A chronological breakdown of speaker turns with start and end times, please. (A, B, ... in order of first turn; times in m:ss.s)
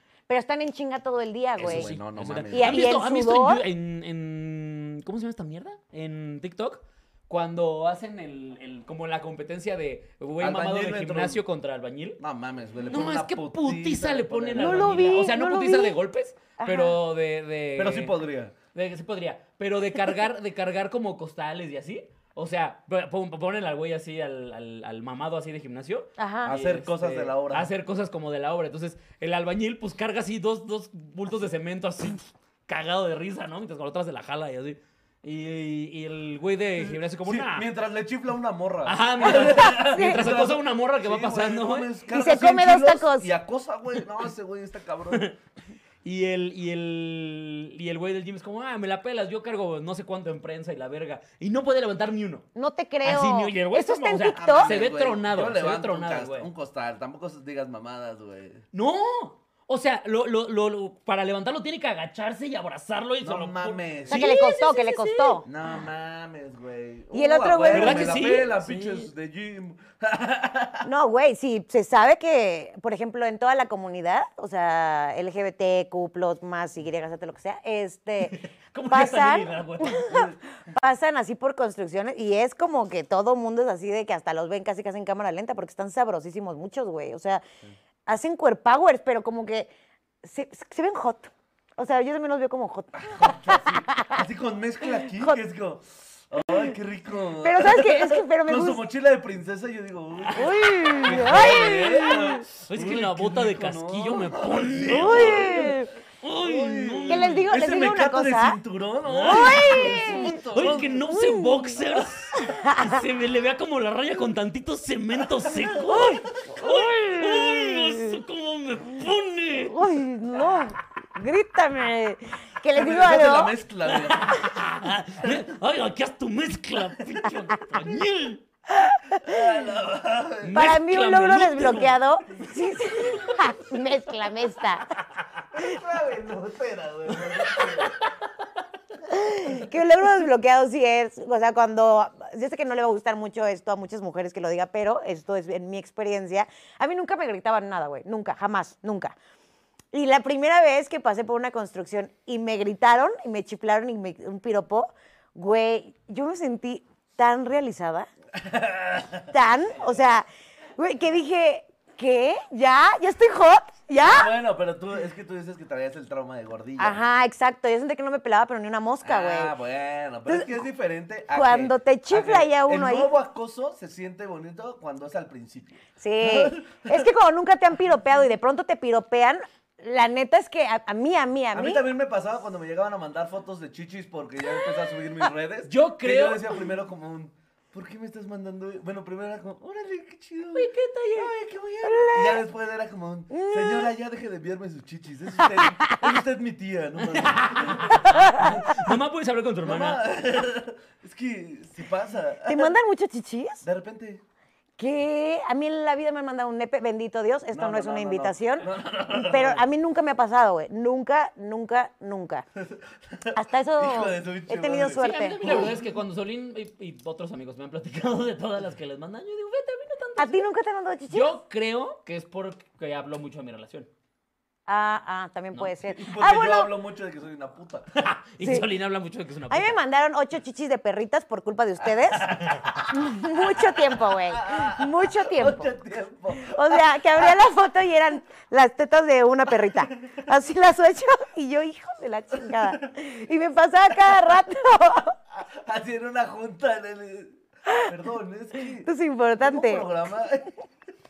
0:00.3-0:01.9 A
0:01.6-0:02.9 B
0:01.6-0:12.2 C
0:02.5-0:03.6 A
0:10.4-0:11.4 B
0:12.2-0:15.2 B
0:12.9-0:18.1 C
0:14.6-0:16.0 A
0:16.6-0:17.0 A
0:17.8-0:18.6 B
0:18.7-0:37.7 C
0:26.2-0:26.5 A
0:26.4-0:27.7 B
0:36.9-0:45.3 B
0:38.8-0:41.9 C
0:39.4-0:40.2 A
0:42.1-0:43.3 A
0:46.0-0:52.4 C
0:52.5-0:54.7 A
0:53.0-0:56.5 C
0:54.3-0:58.6 B
0:58.7-1:05.5 C
1:03.2-1:04.3 B
1:04.1-1:05.4 A
1:05.4-1:10.9 B
1:07.1-1:08.2 A
1:07.7-1:09.1 C
1:10.8-1:18.4 A
1:18.2-1:20.2 C
1:18.9-1:27.4 A
1:20.1-1:20.4 B
1:28.1-1:29.7 A
1:30.2-1:34.2 A
1:32.9-1:45.8 B
1:35.1-1:35.4 A
1:37.4-1:38.8 A
1:40.3-1:42.4 A
1:41.1-1:41.7 C
1:42.6-1:47.5 C
1:44.9-1:45.9 A
1:46.4-1:51.0 B
1:47.1-1:48.6 A
1:49.0-1:59.9 C
1:49.2-1:50.4 A
1:51.0-1:53.0 A
1:55.8-1:58.1 A
1:59.7-2:03.6 A
2:02.7-2:04.6 B
2:03.8-2:08.4 C
2:08.7-2:09.5 A
2:09.2-2:10.6 B
2:10.4-2:12.0 C
2:10.5-2:14.9 A
2:15.5-2:17.9 B
2:17.2-2:18.0 C
2:19.1-2:29.1 A
2:29.9-2:38.1 A
2:38.3-2:39.3 B
2:39.3-2:40.3 A
2:40.8-2:44.3 A
2:44.0-2:47.0 B
2:46.8-2:49.5 A
2:49.0-2:57.1 B
2:50.3-2:50.5 A
2:51.3-2:53.1 A
2:56.0-3:01.8 A
3:01.5-3:18.5 B
3:05.6-3:06.6 C
3:10.5-3:11.3 C
3:11.8-3:12.4 A
3:13.3-3:13.9 A
3:15.4-3:16.1 A
3:17.0-3:20.0 C
3:17.9-3:18.8 A
3:19.6-3:22.7 B
3:22.4-3:23.6 A
3:23.6-3:24.2 B
3:24.8-3:32.4 A
3:27.5-3:29.6 B
3:32.6-3:35.8 B
3:33.3-3:35.7 A
3:35.0-3:40.4 C
3:40.2-3:41.3 A
3:41.1-3:43.9 C
3:44.7-3:46.7 A
3:45.7-3:47.9 B
3:47.9-3:49.8 C
3:48.4-3:48.7 A
3:49.5-3:52.3 A
3:52.3-3:52.8 C
3:52.9-3:55.7 A
3:53.0-3:57.3 B
3:56.3-4:05.2 A
4:02.5-4:02.7 B
4:05.4-4:10.6 B
4:08.8-4:09.8 A